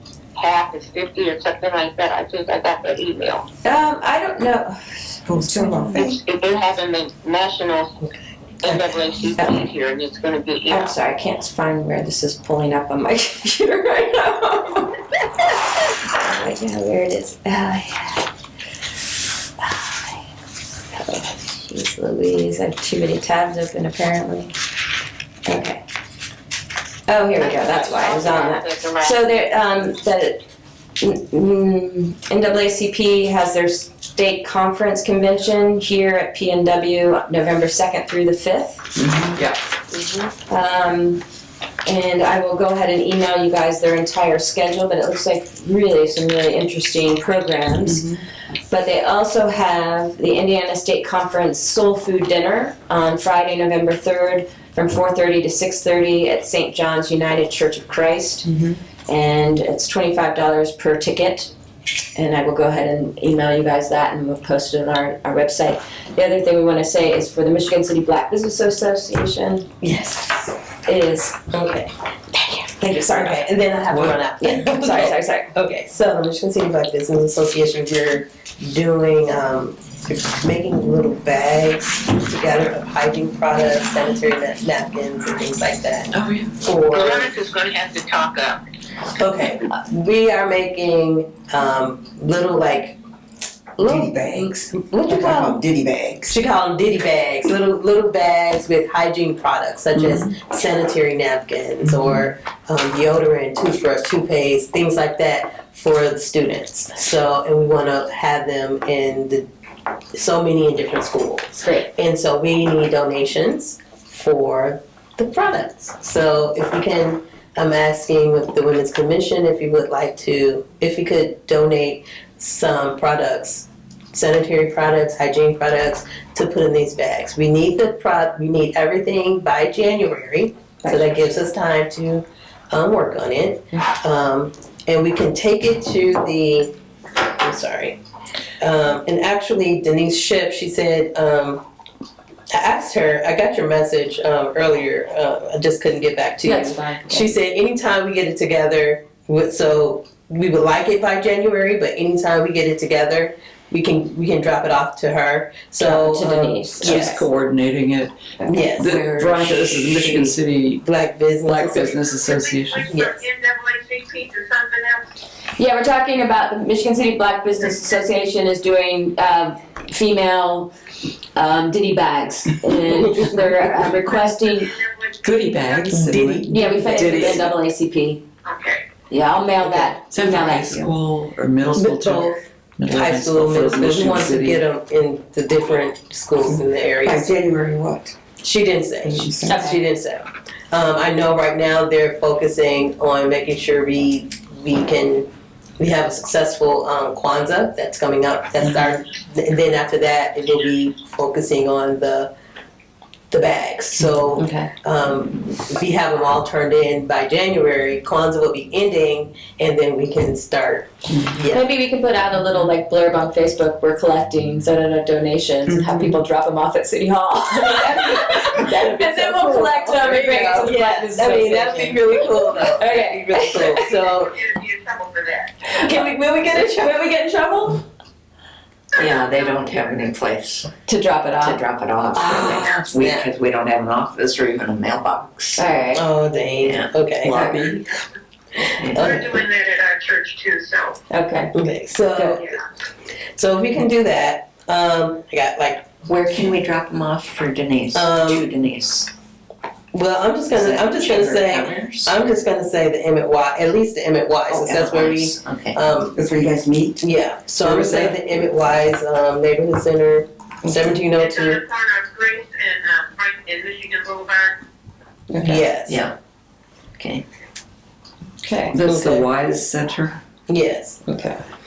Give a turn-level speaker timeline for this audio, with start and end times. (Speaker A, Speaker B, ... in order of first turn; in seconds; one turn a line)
Speaker A: 0.4-3.5
Speaker B: 3.6-4.8
Speaker C: 5.3-6.2
Speaker B: 5.6-6.0
Speaker A: 5.9-8.0
Speaker D: 8.0-9.0
Speaker A: 8.6-10.9
Speaker B: 9.4-9.7
Speaker B: 10.7-18.3
Speaker B: 19.6-20.2
Speaker B: 20.9-24.5
Speaker B: 25.4-25.8
Speaker B: 27.1-30.4
Speaker A: 27.4-29.5
Speaker B: 31.0-38.9
Speaker E: 39.0-39.6
Speaker B: 40.4-41.2
Speaker B: 41.9-48.1
Speaker E: 47.9-48.2
Speaker B: 48.7-61.5
Speaker B: 62.1-69.7
Speaker D: 69.8-70.5
Speaker B: 70.9-71.4
Speaker D: 71.5-71.9
Speaker B: 72.4-73.4
Speaker D: 72.9-86.1
Speaker E: 73.9-74.2
Speaker B: 74.3-75.5
Speaker E: 86.1-86.5
Speaker D: 86.6-87.3
Speaker A: 86.9-88.6
Speaker D: 89.2-93.0
Speaker D: 93.8-95.6
Speaker C: 93.8-96.4
Speaker D: 96.3-109.5
Speaker E: 100.0-100.2
Speaker E: 101.9-102.2
Speaker D: 110.1-136.7
Speaker B: 111.6-111.9
Speaker B: 130.8-131.1
Speaker D: 137.4-138.0
Speaker D: 138.6-141.6
Speaker D: 142.5-157.2
Speaker B: 146.4-147.3
Speaker B: 155.8-157.0
Speaker E: 156.8-160.8
Speaker B: 158.4-160.1
Speaker D: 158.5-159.0
Speaker D: 160.0-162.0
Speaker E: 161.4-162.9
Speaker A: 162.1-165.1
Speaker D: 162.9-163.2
Speaker B: 165.6-170.7
Speaker B: 171.3-174.7
Speaker A: 173.9-176.1
Speaker E: 175.2-177.5
Speaker D: 175.9-177.3
Speaker C: 175.9-176.9
Speaker B: 176.5-178.2
Speaker A: 178.4-178.9
Speaker B: 179.1-180.8
Speaker D: 179.6-180.0
Speaker E: 180.1-184.6
Speaker D: 181.7-187.4
Speaker C: 186.5-188.2
Speaker D: 188.4-195.3
Speaker C: 189.0-189.6
Speaker B: 189.4-189.8
Speaker D: 195.8-202.3
Speaker D: 203.3-211.7
Speaker B: 204.4-204.7
Speaker E: 211.1-211.4
Speaker B: 211.4-223.9
Speaker E: 215.7-216.2
Speaker D: 217.6-224.4
Speaker A: 223.8-225.7
Speaker B: 225.7-227.8
Speaker D: 225.8-227.0
Speaker F: 228.9-230.7
Speaker A: 229.0-229.7
Speaker B: 230.9-231.7
Speaker F: 231.4-235.7
Speaker D: 232.1-233.3
Speaker B: 235.6-236.1
Speaker D: 235.9-237.4
Speaker F: 236.6-237.8
Speaker F: 238.8-239.2
Speaker D: 238.9-239.3
Speaker A: 238.9-241.0
Speaker B: 241.1-241.5
Speaker D: 241.5-242.6
Speaker B: 242.1-242.4
Speaker D: 243.3-245.9
Speaker F: 246.1-249.1
Speaker D: 247.9-248.5
Speaker D: 249.9-256.2
Speaker F: 250.5-252.2
Speaker F: 254.5-255.8
Speaker C: 256.1-257.0
Speaker D: 257.0-261.6
Speaker A: 261.2-264.6
Speaker F: 265.4-266.1
Speaker D: 265.4-266.1
Speaker F: 267.0-267.2
Speaker B: 268.4-268.8
Speaker E: 268.7-270.2
Speaker D: 268.8-269.3
Speaker D: 270.5-271.0